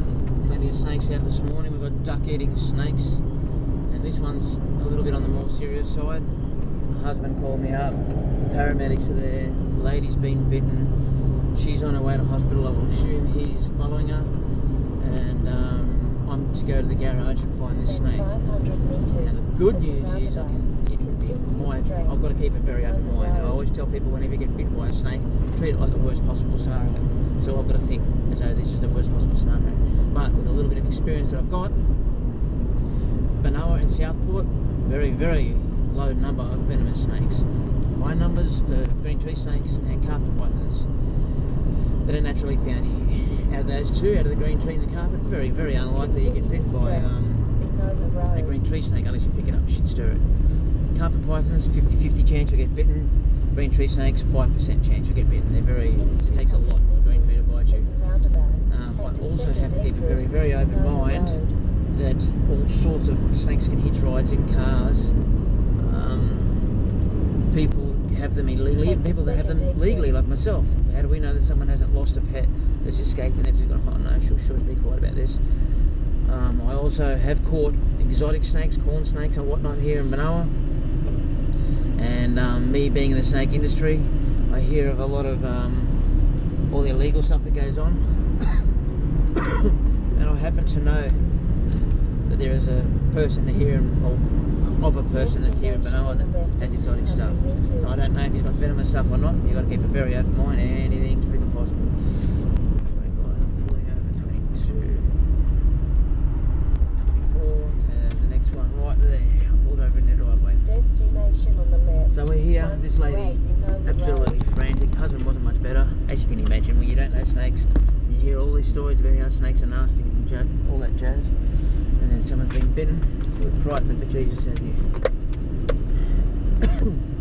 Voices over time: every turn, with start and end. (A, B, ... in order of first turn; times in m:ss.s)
0:00.4-0:31.8 A
0:17.8-0:23.6 B
0:33.4-0:41.4 A
0:42.0-1:06.8 A
0:45.9-0:48.6 B
0:55.9-1:01.6 B
1:07.5-1:20.6 A
1:08.8-1:10.2 B
1:22.0-1:28.7 A
1:30.1-1:45.2 A
1:35.0-1:38.1 B
1:47.0-1:50.7 A
1:50.6-1:54.4 B
1:52.1-2:05.0 A
2:06.6-2:06.9 A